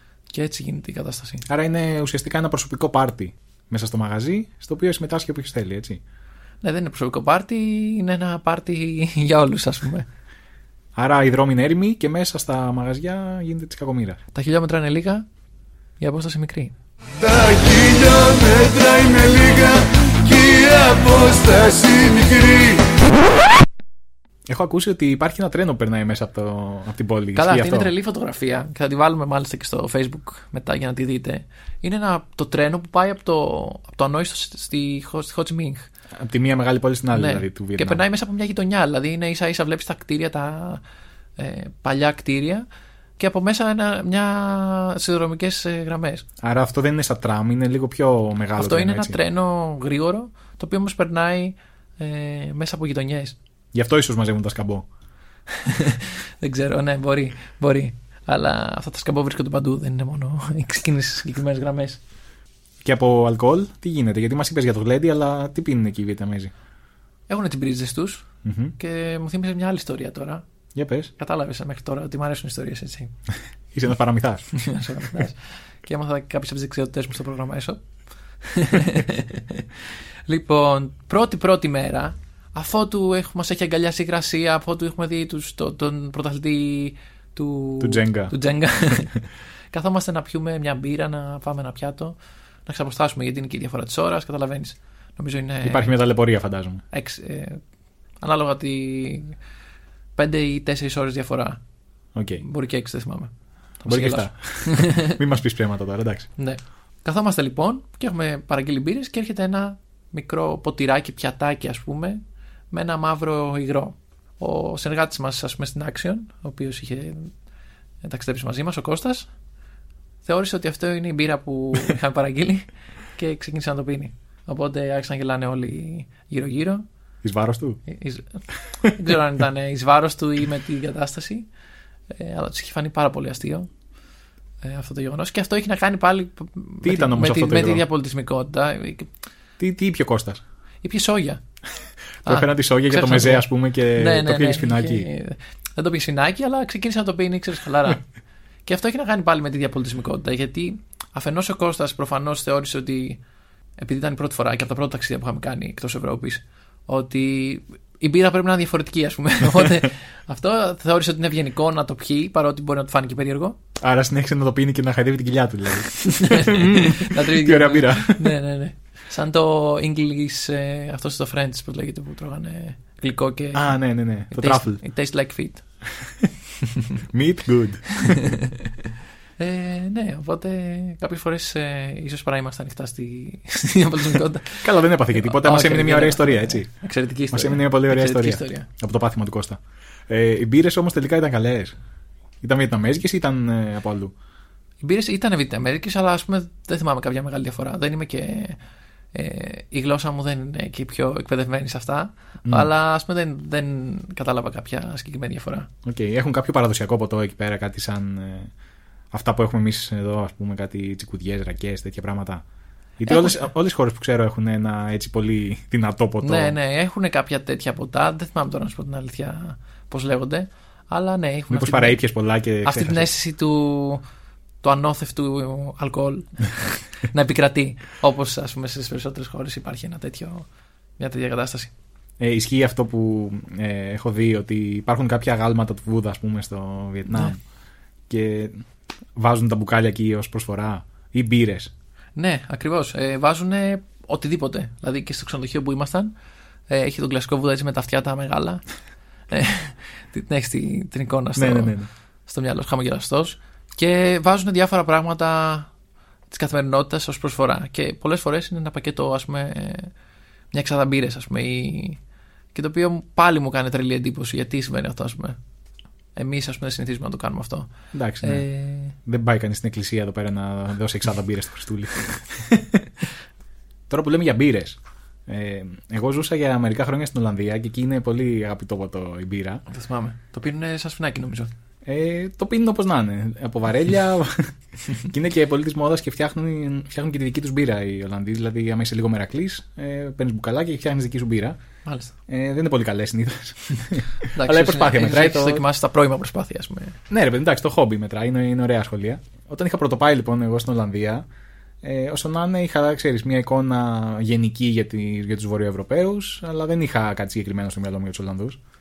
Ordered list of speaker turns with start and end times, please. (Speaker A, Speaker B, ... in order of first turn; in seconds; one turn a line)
Speaker A: 0.3-1.4
Speaker B: 1.5-6.0
Speaker A: 6.6-10.1
Speaker B: 10.9-14.2
Speaker A: 14.3-15.3
Speaker A: 16.0-16.7
Speaker C: 17.2-22.9
Speaker B: 24.5-27.9
Speaker A: 27.4-35.9
Speaker B: 36.2-38.0
Speaker A: 37.1-40.8
Speaker A: 41.4-42.7
Speaker A: 43.2-46.3
Speaker B: 46.4-49.2
Speaker A: 48.6-53.4
Speaker B: 53.7-54.9
Speaker A: 55.6-62.0
Speaker B: 62.8-66.5
Speaker A: 67.3-68.3
Speaker B: 68.4-68.8
Speaker A: 68.8-70.4
Speaker B: 70.8-71.1
Speaker A: 71.2-73.1
Speaker B: 73.7-74.5
Speaker A: 74.6-77.8
Speaker A: 78.4-79.7
Speaker A: 80.3-89.2
Speaker B: 87.8-88.3
Speaker A: 89.7-92.2
Speaker A: 92.7-95.9
Speaker B: 95.6-96.8
Speaker A: 96.9-97.6
Speaker A: 98.2-99.4
Speaker A: 100.2-101.6
Speaker B: 102.2-102.4
Speaker A: 102.4-105.2
Speaker B: 103.9-106.3
Speaker A: 106.4-112.2
Speaker A: 112.7-117.3
Speaker A: 118.0-119.3
Speaker A: 120.2-126.8
Speaker B: 127.2-127.8
Speaker A: 127.9-131.5
Speaker A: 132.1-133.7
Speaker A: 134.6-139.1
Speaker B: 136.8-137.8
Speaker B: 139.6-140.4
Speaker A: 140.8-141.4
Speaker A: 142.2-148.0
Speaker B: 142.3-145.1
Speaker A: 148.7-153.2
Speaker A: 153.8-163.6
Speaker B: 163.8-168.3
Speaker A: 166.2-173.7
Speaker B: 173.5-174.8
Speaker A: 174.3-175.6
Speaker B: 177.1-178.4
Speaker A: 179.4-188.7
Speaker B: 184.6-186.7
Speaker B: 187.3-191.8
Speaker B: 192.4-194.1
Speaker A: 194.8-198.6
Speaker A: 199.1-205.7
Speaker B: 202.4-202.7
Speaker B: 205.8-208.5
Speaker B: 209.1-212.4
Speaker B: 213.0-216.6
Speaker A: 213.1-213.4
Speaker A: 216.2-222.0
Speaker B: 221.5-223.1
Speaker A: 222.6-224.0
Speaker A: 224.6-230.5
Speaker A: 231.0-231.7
Speaker B: 232.2-237.4
Speaker B: 238.1-241.7
Speaker A: 242.2-246.1
Speaker A: 246.7-248.6
Speaker A: 249.3-251.8
Speaker B: 251.4-251.9
Speaker A: 252.3-255.7
Speaker A: 256.3-259.9
Speaker A: 260.5-262.0
Speaker A: 262.5-265.4
Speaker A: 266.1-267.7
Speaker B: 267.9-268.5
Speaker A: 268.2-268.9
Speaker B: 269.1-272.9
Speaker B: 273.9-279.6
Speaker A: 279.7-281.5
Speaker B: 281.9-291.6
Speaker A: 291.9-292.1
Speaker B: 292.3-295.6
Speaker A: 294.3-297.0
Speaker B: 297.1-301.2
Speaker B: 301.8-308.6